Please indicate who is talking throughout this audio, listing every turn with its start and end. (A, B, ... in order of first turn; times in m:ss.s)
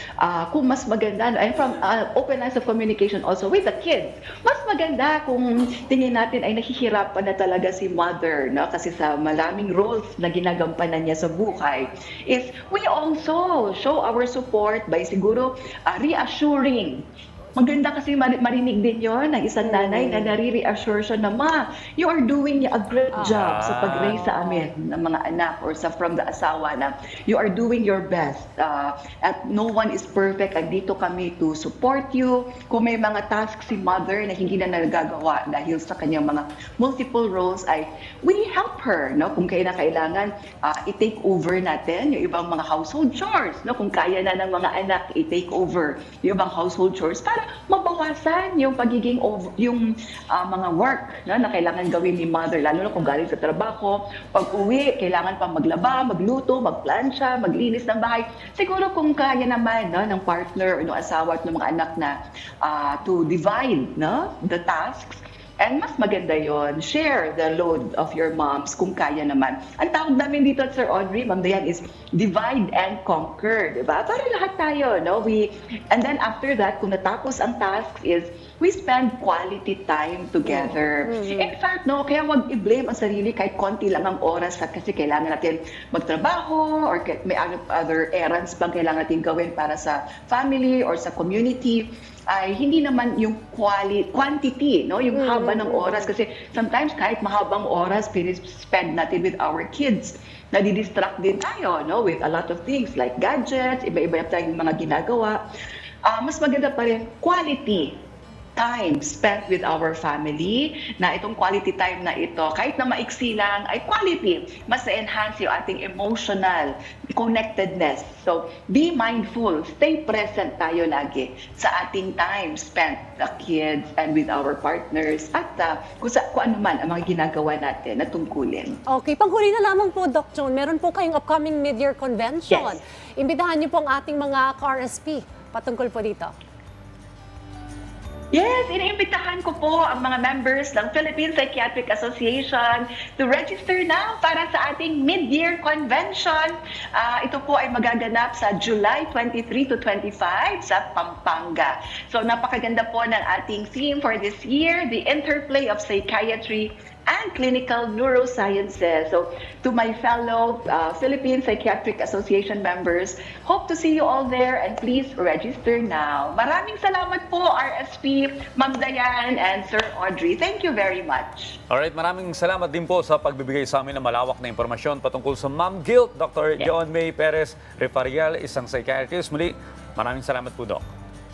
0:00.2-0:17.0 A
0:17.6-1:45.4 A
0:19.6-0:20.4 B
0:23.2-0:24.3 C
0:24.4-0:24.6 B
1:20.4-1:21.5 B
1:35.1-1:36.1 B
1:46.1-1:47.9 A
1:48.6-2:08.8 A
2:08.9-2:16.3 B
2:12.5-2:12.8 A
2:18.3-2:51.6 A
2:51.7-3:00.8 C